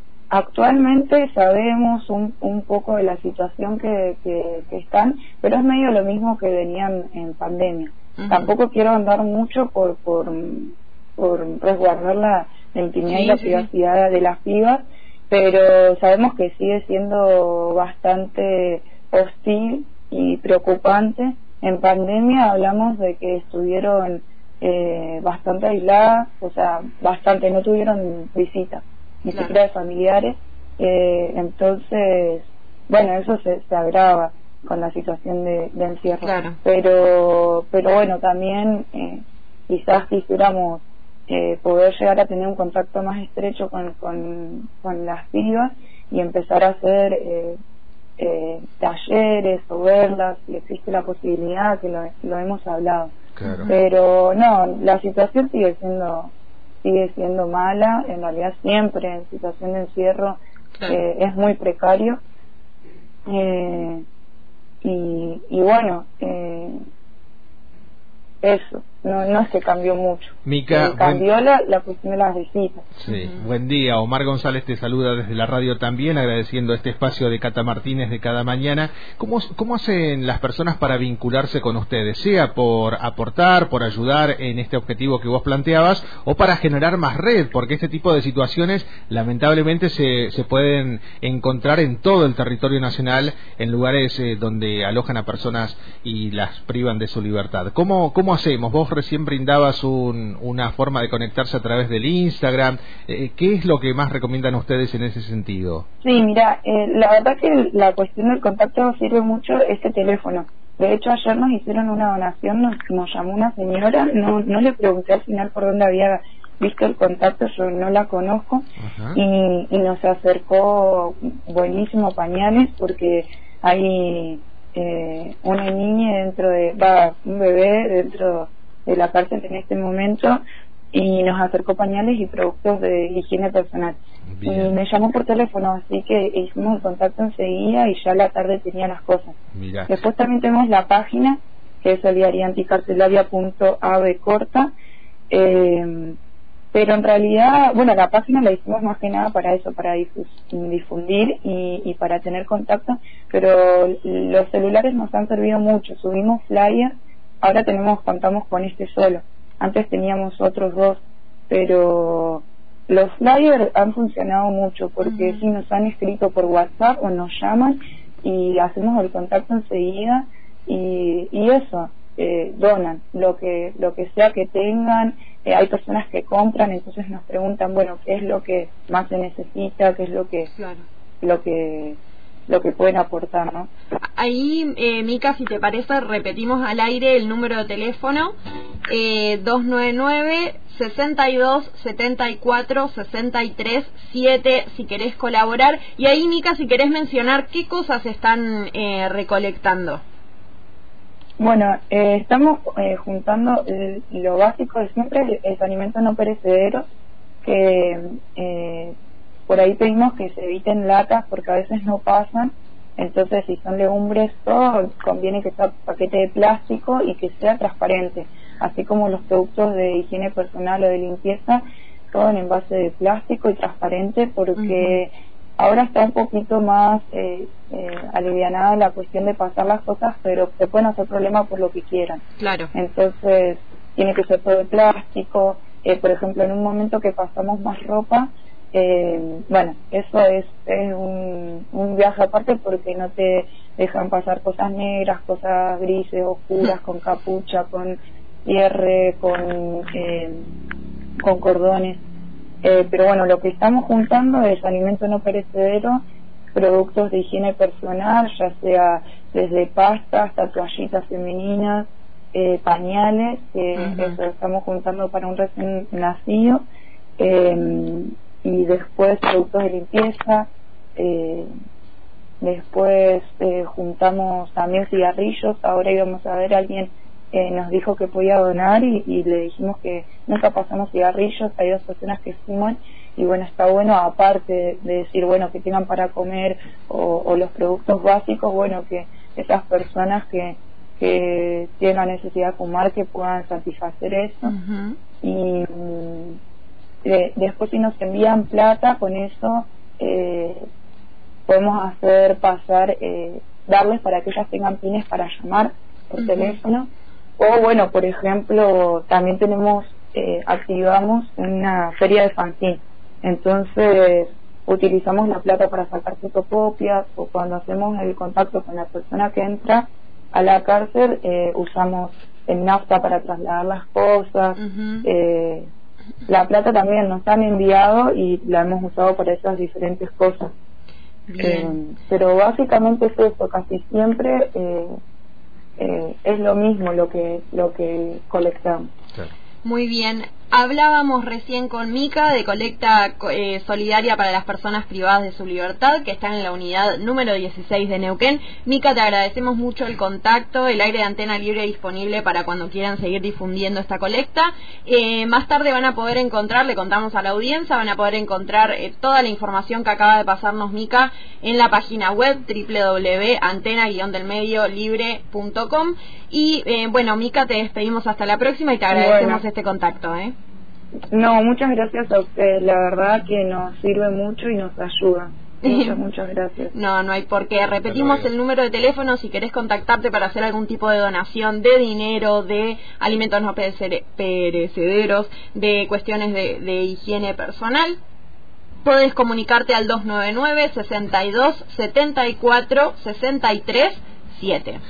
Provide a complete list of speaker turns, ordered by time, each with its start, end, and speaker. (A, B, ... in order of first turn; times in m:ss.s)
0:00.3-0:47.6 A
0:08.2-0:08.5 B
0:13.1-0:13.7 B
0:36.2-0:36.6 B
0:48.2-0:53.1 A
0:53.4-0:53.7 C
0:53.4-0:53.8 B
0:53.7-0:56.3 A
0:56.8-1:02.2 A
1:03.3-1:04.0 A
1:04.8-1:06.8 A
1:08.4-1:12.8 A
1:10.4-1:11.2 C
1:13.0-1:45.8 C
1:13.0-1:13.4 B
1:46.0-2:10.4 A
1:58.8-1:59.2 C
2:10.9-2:19.3 A
2:14.4-2:14.7 C
2:19.5-2:20.0 C
2:19.9-2:24.7 A
2:25.3-2:26.2 A
2:26.7-3:00.5 A
2:45.0-2:45.4 B
3:00.5-3:00.8 B
3:01.2-3:03.7 A
3:04.2-3:08.3 B
3:08.9-3:20.0 B
3:21.4-3:26.8 A
3:27.4-3:28.9 A
3:29.5-3:52.2 A
3:44.6-3:45.0 B
3:52.4-3:52.7 B
3:52.7-4:10.5 A
4:11.2-4:12.0 A
4:12.6-4:16.0 A
4:16.5-4:26.6 A
4:23.8-4:24.2 B
4:27.2-4:31.5 A
4:32.4-4:54.5 A
4:54.4-4:55.0 B
4:55.2-4:56.4 A
4:57.0-5:00.6 A
5:01.5-5:25.7 A
5:06.2-5:06.6 B
5:24.6-5:25.1 B
5:26.3-5:30.5 A
5:31.3-5:31.8 B
5:31.4-5:34.9 A
5:35.8-5:38.9 A
5:39.6-6:10.3 B
6:08.9-6:09.4 A
6:11.1-6:16.7 A
6:15.6-6:16.0 B
6:16.7-6:28.0 B
6:17.8-6:18.3 C
6:28.8-6:34.8 B